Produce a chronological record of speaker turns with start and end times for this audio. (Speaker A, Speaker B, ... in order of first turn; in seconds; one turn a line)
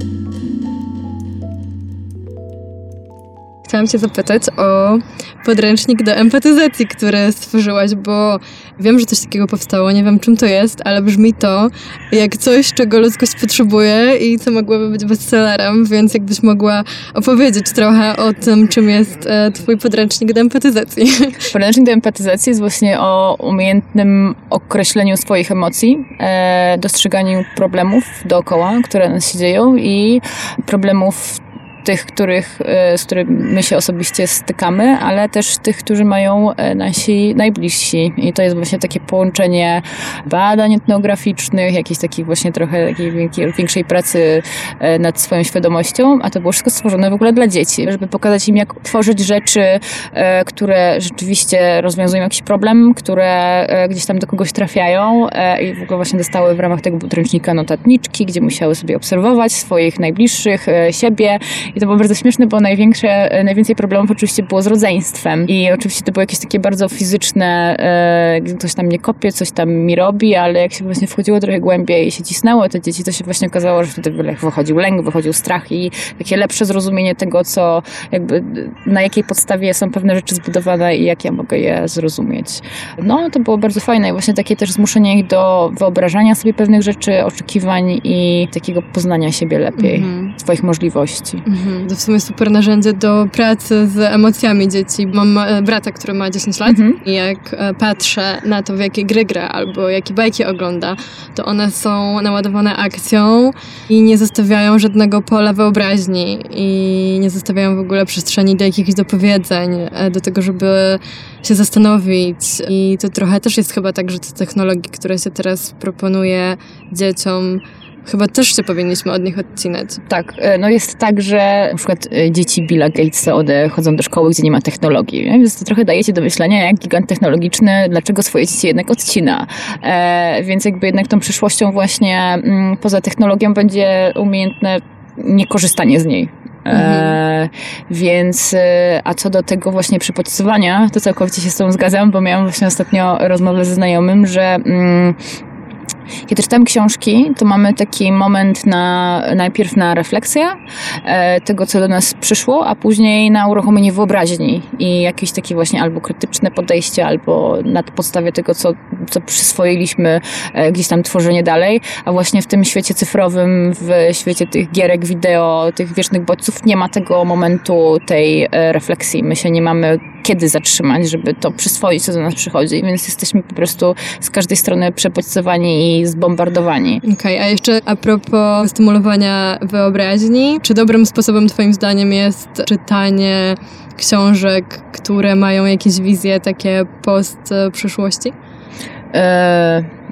Speaker A: 3.7-21.5
Speaker B: 21.5-91.5
Speaker A: 89.8-90.3
Speaker A: 91.5-120.0
Speaker B: 96.7-97.0
Speaker B: 120.1-145.2
Speaker A: 136.7-137.2
Speaker B: 146.3-177.0
Speaker A: 177.0-188.3
Speaker B: 189.1-189.9